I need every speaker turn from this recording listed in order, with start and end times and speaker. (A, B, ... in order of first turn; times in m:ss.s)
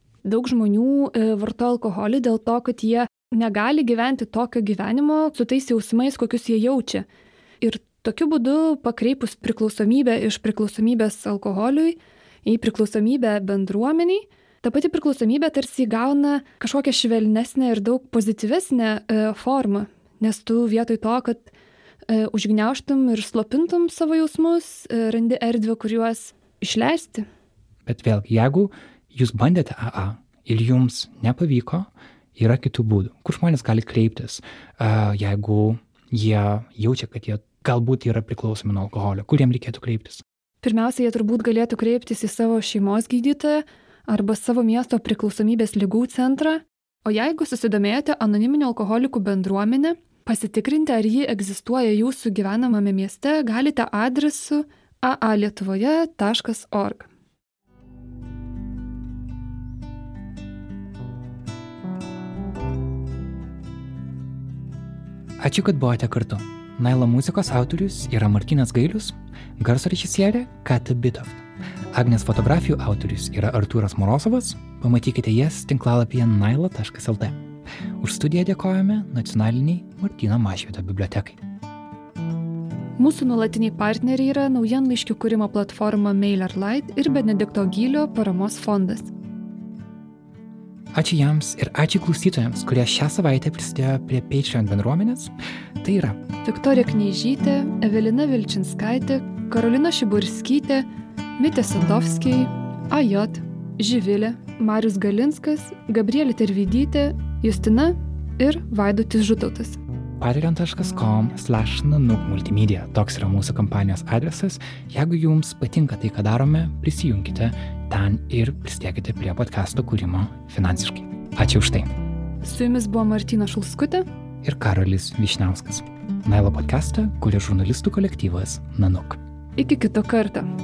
0:00.2-0:07.0 A
0:07.6-0:21.5 A
0:22.1-0:27.3 A
0:27.9-0:40.2 B
0:40.6-0:57.1 A
1:05.4-1:17.4 B
1:18.0-1:21.4 B
1:23.0-1:29.1 A
1:30.9-1:36.2 B
1:36.4-1:40.9 A
1:41.4-1:49.8 A
1:50.2-2:01.9 B
2:02.4-2:04.0 A
2:04.4-2:09.2 B
2:09.6-2:10.5 A